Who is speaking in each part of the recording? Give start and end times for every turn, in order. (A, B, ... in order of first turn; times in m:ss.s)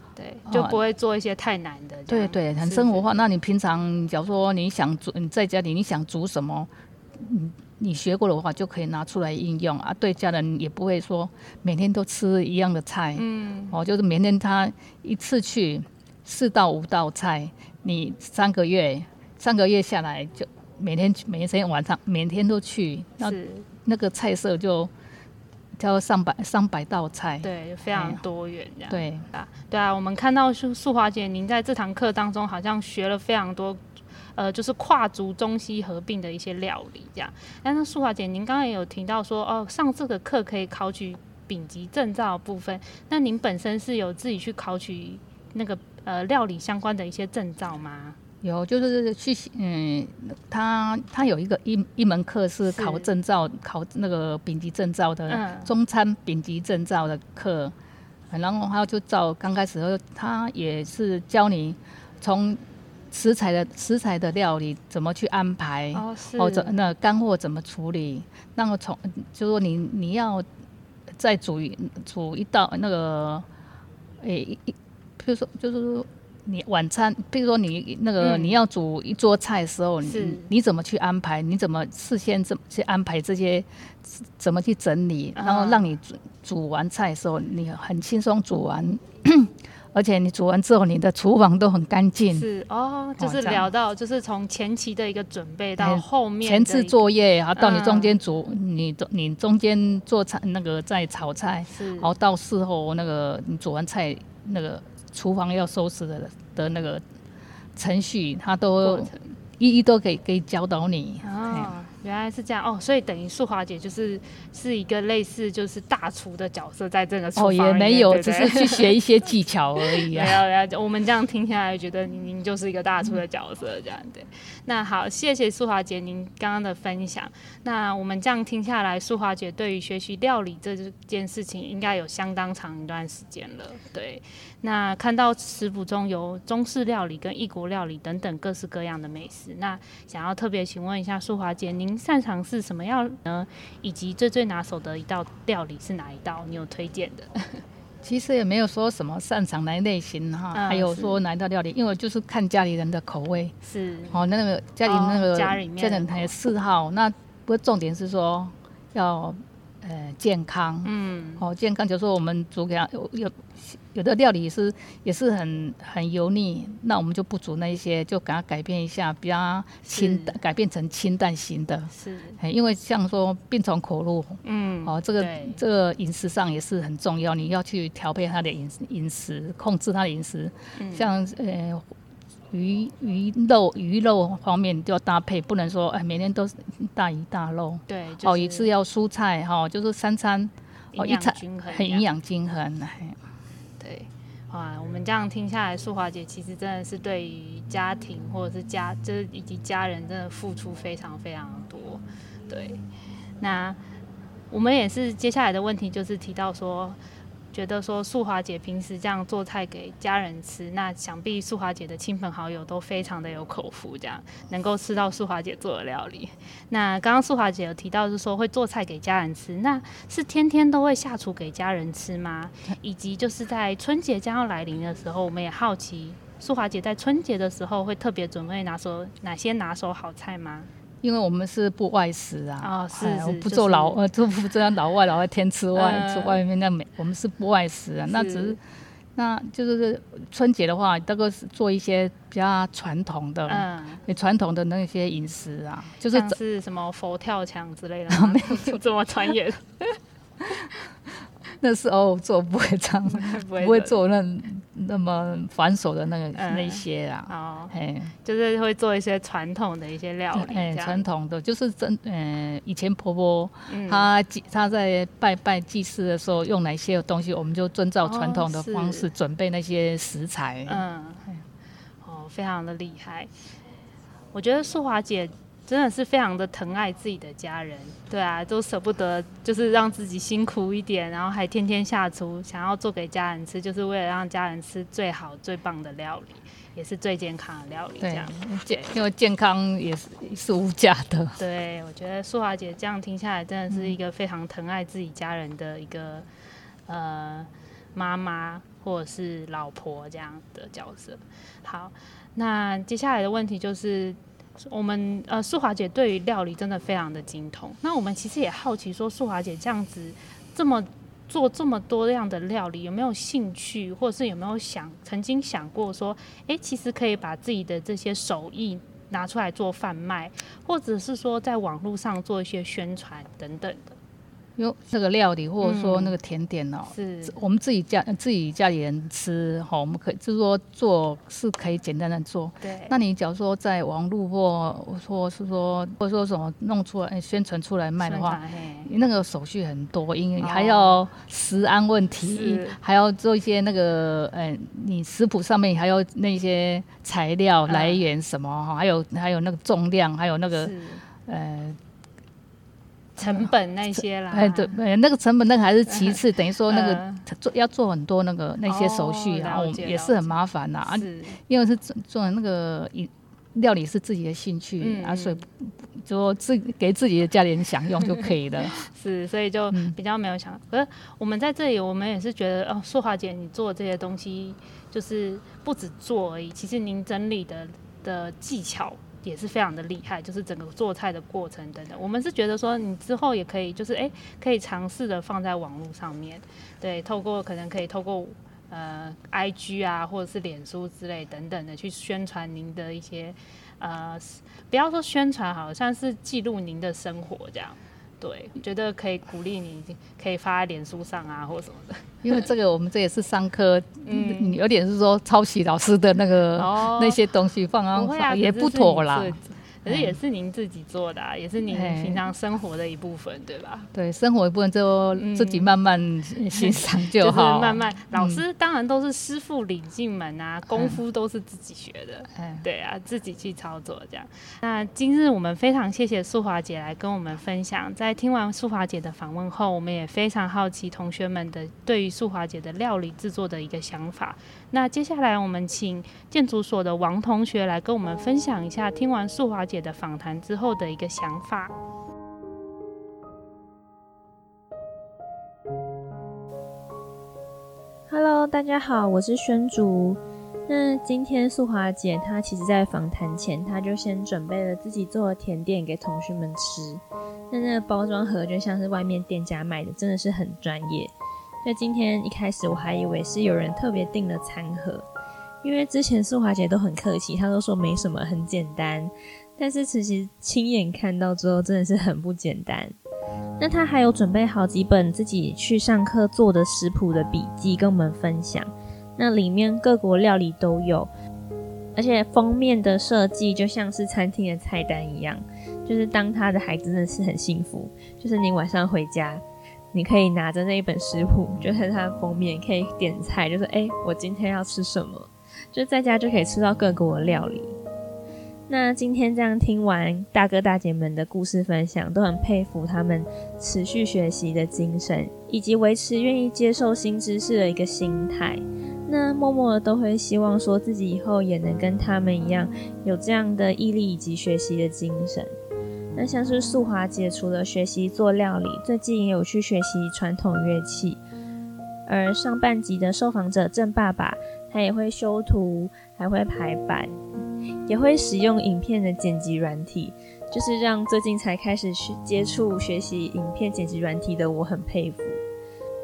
0:00.2-0:03.1 A
0:00.4-0:00.8 B
0:02.1-0:24.9 B
0:13.1-0:13.7 A
0:23.2-0:23.6 A
0:25.8-0:28.2 B
0:27.4-0:33.8 A
0:28.9-0:29.2 B
0:34.3-0:48.2 A
0:48.4-0:57.7 B
0:52.7-0:53.1 A
0:55.3-0:55.7 A
0:58.3-1:02.6 B
1:03.1-1:10.4 B
1:05.9-1:06.7 A
1:11.2-1:13.4 B
1:14.2-1:32.5 B
1:18.2-1:18.6 A
1:20.0-1:20.5 A
1:25.4-1:25.8 A
1:32.3-1:38.2 A
1:33.2-1:33.7 B
1:35.8-1:47.0 B
1:41.7-1:42.1 A
1:47.8-1:51.7 B
1:48.8-1:49.3 A
1:51.2-1:58.9 A
1:57.4-2:00.4 B
1:59.8-2:27.6 A
2:28.0-2:33.5 B
2:30.5-2:31.2 A
2:33.6-2:34.2 A
2:34.1-3:01.9 B
2:34.8-2:36.3 A
2:40.8-2:41.4 A
2:49.8-2:50.4 A
2:51.9-2:52.4 A
2:54.4-2:55.6 A
3:00.8-3:01.1 A
3:02.5-3:13.2 B
3:07.9-3:08.7 A
3:10.9-3:12.0 A
3:13.8-3:22.8 A
3:23.4-3:23.8 A
3:24.5-3:27.0 A
3:27.5-3:50.7 A
3:51.0-3:58.6 B
3:52.6-3:54.0 A
3:55.7-3:56.4 A
3:58.1-3:58.6 A
3:59.2-4:06.4 B
4:03.5-4:04.0 A
4:06.1-4:09.9 A
4:08.1-4:08.8 B
4:11.6-4:18.1 B
4:13.1-4:14.0 A
4:16.4-4:21.0 A
4:20.3-4:30.8 B
4:23.7-4:24.1 A
4:28.0-4:29.1 A
4:30.6-4:31.3 A
4:32.0-4:33.3 A
4:34.3-4:48.9 A
4:48.0-4:51.4 B
4:51.4-4:56.3 A
4:53.7-4:54.0 B
4:56.9-5:24.0 A
5:24.6-5:51.8 B
5:25.6-5:26.2 A
5:26.9-5:27.4 A
5:32.6-5:32.9 A
5:38.0-5:38.9 A
5:40.4-5:41.0 A
5:42.2-5:42.8 A
5:47.7-5:48.0 A
5:50.5-5:51.0 A
5:53.2-5:54.8 A
5:53.2-6:08.9 B
5:55.9-5:57.2 A
5:58.7-6:00.3 A
6:00.9-6:01.4 A
6:04.8-6:05.4 A
6:08.6-6:42.5 A
6:09.7-6:10.0 B
6:42.2-6:50.2 B
6:44.0-6:44.6 A
6:46.6-6:47.2 A
6:47.9-6:53.9 A
6:51.7-6:52.2 B
6:53.9-6:58.4 B
6:55.1-6:55.7 A
6:56.5-7:21.7 A
7:00.7-7:01.0 B
7:02.3-7:02.6 B
7:28.1-7:45.1 C
7:45.6-7:53.0 C
7:53.6-8:01.1 C
8:02.0-8:17.8 C
8:18.7-8:35.5 C
8:36.1-8:41.2 C
8:42.1-8:47.2 C
8:47.9-8:55.4 C